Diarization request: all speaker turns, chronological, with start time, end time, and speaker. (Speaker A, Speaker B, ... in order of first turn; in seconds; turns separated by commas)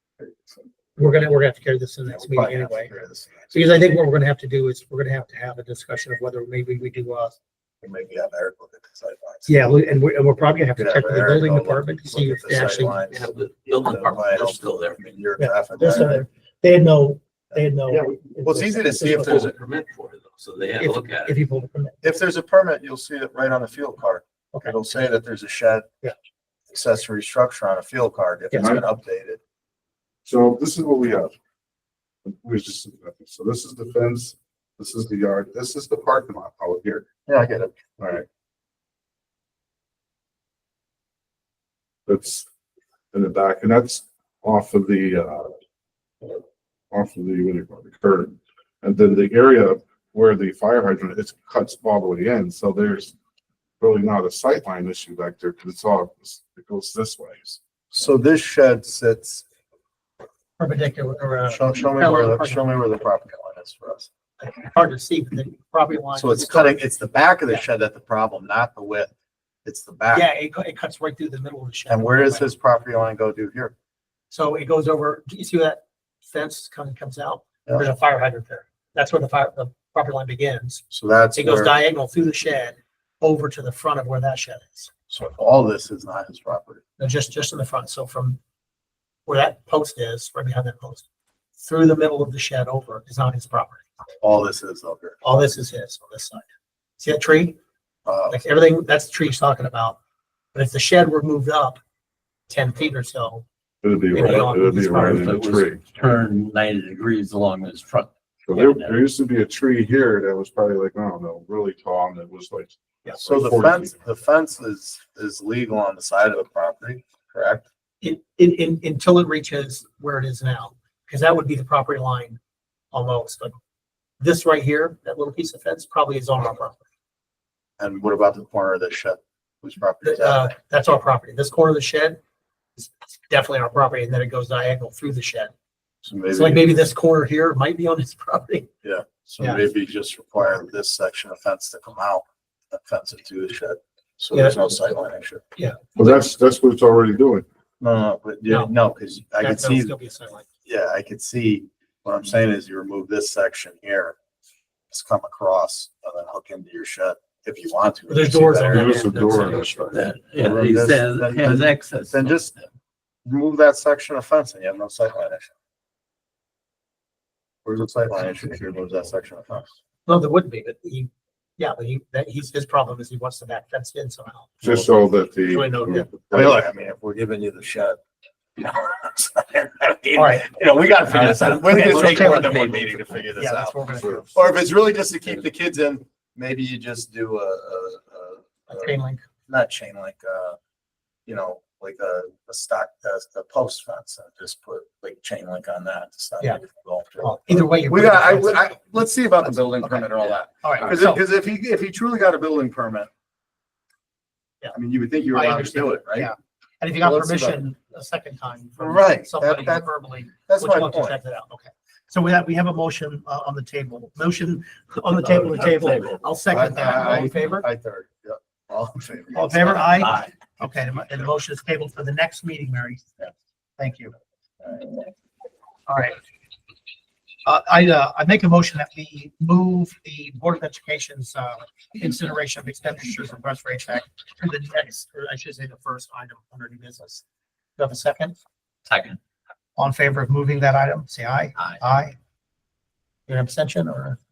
Speaker A: 0.2-0.5, Speaker B: 1.0-3.0, Speaker A: 2.0-4.0, Speaker B: 3.5-7.3, Speaker A: 7.8-9.6, Speaker B: 9.5-13.0, Speaker A: 10.8-16.2, Speaker C: 13.1-15.0, Speaker B: 15.4-19.4, Speaker A: 17.5-19.5, Speaker C: 19.0-21.3, Speaker B: 20.8-22.0, Speaker A: 22.0-25.9, Speaker A: 26.7-29.4, Speaker B: 28.5-28.8, Speaker D: 28.6-28.9, Speaker D: 30.2-31.3, Speaker D: 32.2-37.0, Speaker A: 37.2-37.8, Speaker D: 38.0-38.2, Speaker D: 42.1-42.5, Speaker D: 43.1-45.5, Speaker D: 46.2-53.1, Speaker D: 53.8-57.6, Speaker A: 57.9-59.4, Speaker B: 60.6-62.6, Speaker A: 61.5-64.1, Speaker B: 64.4-66.8, Speaker A: 66.1-69.1, Speaker A: 69.6-70.3, Speaker B: 70.1-72.5, Speaker A: 71.9-73.7, Speaker B: 74.3-80.8, Speaker A: 80.9-81.7, Speaker B: 81.3-84.9, Speaker A: 85.1-86.8, Speaker B: 87.0-88.4, Speaker B: 89.2-91.0, Speaker B: 91.6-93.8, Speaker A: 94.2-95.4, Speaker B: 95.2-96.5, Speaker B: 97.0-97.5, Speaker A: 98.0-98.4, Speaker B: 98.3-100.0, Speaker B: 100.5-101.8, Speaker B: 102.5-103.4, Speaker D: 103.8-105.8, Speaker B: 104.1-105.3, Speaker C: 104.2-109.0, Speaker D: 108.5-114.0, Speaker A: 113.2-117.7, Speaker B: 118.0-122.4, Speaker B: 122.9-123.5, Speaker B: 124.2-126.8, Speaker A: 127.8-130.4, Speaker B: 130.0-132.2, Speaker B: 132.8-135.5, Speaker A: 136.0-136.7, Speaker B: 136.3-138.7, Speaker A: 138.8-145.4, Speaker B: 144.3-144.6, Speaker B: 145.6-146.2, Speaker D: 145.9-147.4, Speaker A: 147.8-149.9, Speaker B: 148.5-148.7, Speaker B: 149.4-150.4, Speaker A: 150.6-154.2, Speaker A: 154.9-159.0, Speaker B: 158.1-159.9, Speaker D: 158.7-160.0, Speaker C: 159.5-162.7, Speaker A: 160.4-162.5, Speaker A: 163.2-165.5, Speaker A: 167.6-169.7, Speaker B: 170.1-174.7, Speaker D: 174.6-176.7, Speaker B: 175.5-176.1, Speaker A: 176.3-178.0, Speaker A: 178.6-188.9, Speaker B: 180.1-180.5, Speaker C: 181.1-183.2, Speaker B: 181.6-182.7, Speaker B: 183.3-184.4, Speaker D: 184.0-184.4, Speaker B: 188.7-189.2, Speaker A: 189.5-190.6, Speaker A: 191.2-203.1, Speaker B: 197.2-198.8, Speaker B: 199.8-200.1, Speaker B: 200.6-201.2, Speaker A: 204.7-206.3, Speaker B: 205.3-217.7, Speaker A: 207.0-207.6, Speaker A: 208.8-209.9, Speaker A: 210.5-211.2, Speaker A: 216.5-220.5, Speaker B: 219.3-223.0, Speaker B: 223.8-224.1, Speaker B: 225.9-226.2, Speaker B: 227.4-237.2, Speaker B: 237.8-238.4, Speaker C: 238.9-239.2, Speaker B: 239.8-242.1, Speaker B: 243.3-244.2